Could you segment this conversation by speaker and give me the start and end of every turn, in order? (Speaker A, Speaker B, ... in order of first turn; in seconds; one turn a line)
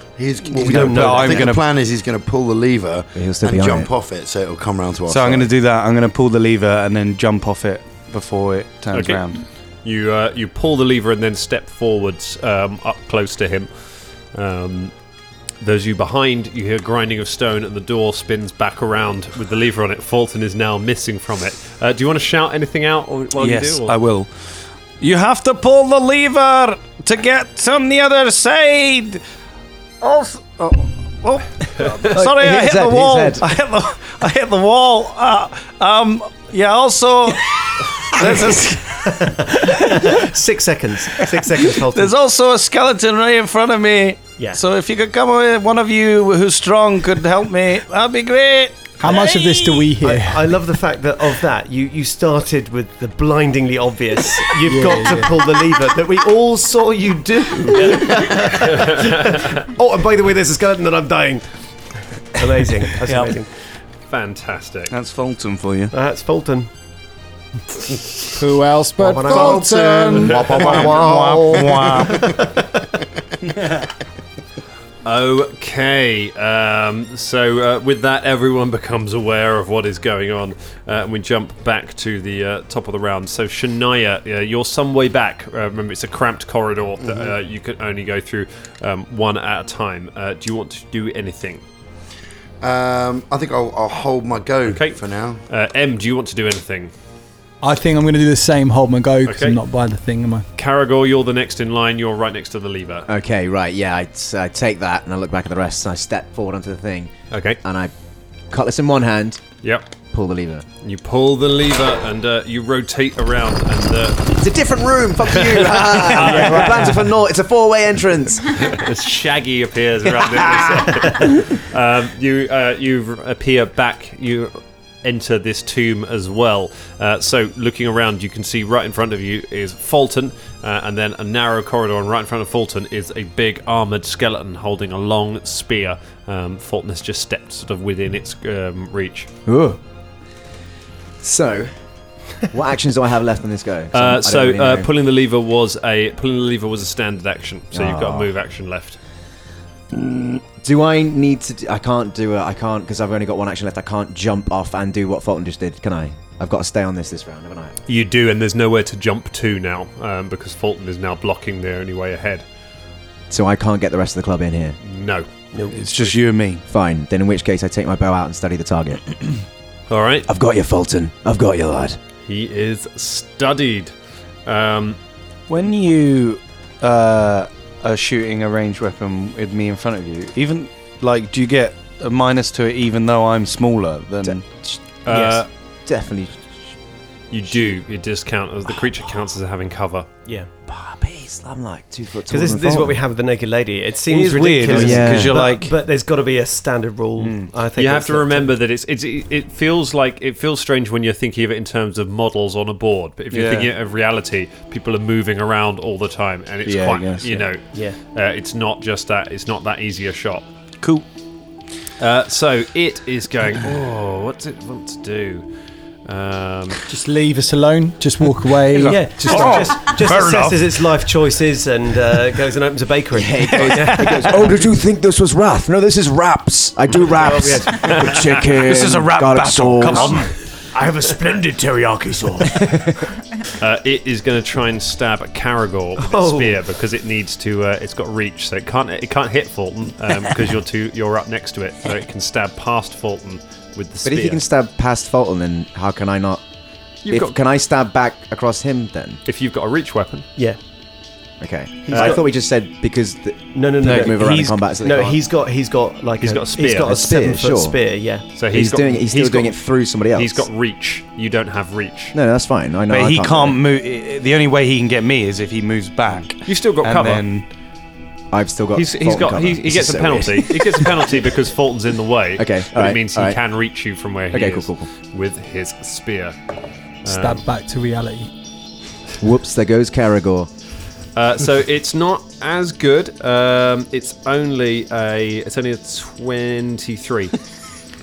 Speaker A: 0.2-5.5
Speaker B: 0.5-1.5
Speaker C: 0.6-1.7
Speaker D: 3.1-3.9
Speaker C: 5.1-9.4
Speaker E: 8.9-9.3
Speaker E: 9.8-15.0
Speaker E: 15.6-23.9
Speaker C: 23.4-24.3
Speaker C: 25.0-29.2
Speaker C: 30.0-39.0
Speaker D: 32.1-33.5
Speaker B: 38.1-42.2
Speaker C: 41.2-49.9
Speaker B: 44.4-44.6
Speaker F: 49.0-50.5
Speaker B: 50.0-61.5
Speaker F: 54.7-55.3
Speaker E: 58.6-59.6
Speaker B: 62.4-63.5
Speaker C: 63.0-63.4
Speaker E: 64.1-64.9
Speaker C: 64.9-65.9
Speaker B: 65.9-66.7
Speaker F: 68.3-70.4
Speaker B: 69.0-72.7
Speaker A: 69.3-72.3
Speaker E: 70.3-70.6
Speaker C: 70.6-72.3
Speaker E: 75.0-91.6
Speaker A: 87.0-87.3
Speaker A: 92.6-95.4
Speaker E: 94.7-96.9
Speaker F: 97.6-100.5
Speaker E: 99.2-99.6
Speaker E: 100.6-103.1
Speaker D: 103.1-107.1
Speaker E: 107.3-107.6
Speaker D: 107.6-107.9
Speaker D: 108.5-109.4
Speaker E: 109.6-109.9
Speaker D: 110.1-110.7
Speaker E: 110.8-114.4
Speaker D: 114.4-118.7
Speaker E: 115.3-117.1
Speaker E: 118.5-139.3
Speaker D: 139.5-139.8
Speaker D: 141.2-141.7
Speaker D: 142.5-144.9
Speaker E: 143.9-149.0
Speaker D: 147.7-148.3
Speaker D: 149.9-157.7
Speaker E: 157.9-162.4
Speaker D: 163.3-164.8
Speaker E: 164.8-165.3
Speaker B: 165.5-165.8
Speaker C: 165.7-166.6
Speaker D: 166.7-169.1
Speaker E: 169.9-170.3
Speaker D: 170.3-172.0
Speaker E: 172.3-173.9
Speaker E: 174.5-175.0
Speaker C: 175.5-184.5
Speaker D: 184.2-184.8
Speaker E: 185.1-185.5
Speaker B: 185.1-185.4
Speaker D: 185.9-186.6
Speaker E: 187.3-190.1
Speaker D: 190.7-193.0
Speaker B: 192.3-198.5
Speaker C: 194.1-195.7
Speaker D: 194.7-195.4
Speaker C: 197.2-197.5
Speaker E: 197.8-210.5
Speaker C: 203.3-203.7
Speaker C: 206.7-207.5
Speaker B: 207.7-208.0
Speaker E: 212.0-215.4
Speaker E: 216.1-216.8
Speaker F: 216.9-219.7
Speaker C: 218.7-220.9
Speaker B: 218.8-224.3
Speaker D: 223.1-230.2
Speaker C: 223.7-224.2
Speaker B: 227.0-228.4
Speaker C: 228.6-230.3
Speaker B: 229.8-232.7
Speaker D: 232.6-232.9
Speaker E: 233.6-244.4
Speaker B: 236.0-236.6
Speaker D: 244.0-246.4
Speaker E: 247.1-247.3
Speaker D: 247.1-249.2
Speaker E: 249.3-250.3
Speaker D: 251.4-255.2
Speaker B: 251.9-252.2
Speaker E: 251.9-252.2
Speaker B: 253.5-258.3
Speaker C: 253.8-254.6
Speaker E: 256.2-257.0
Speaker D: 256.8-257.8
Speaker E: 258.4-259.6
Speaker D: 258.5-260.5
Speaker E: 260.1-262.1
Speaker D: 262.1-263.6
Speaker C: 262.9-267.5
Speaker E: 266.4-267.3
Speaker D: 268.3-271.1
Speaker E: 268.7-276.4
Speaker D: 272.4-273.4
Speaker D: 274.3-274.9
Speaker E: 277.0-277.4
Speaker F: 277.1-278.3
Speaker D: 279.2-280.5
Speaker E: 281.2-287.3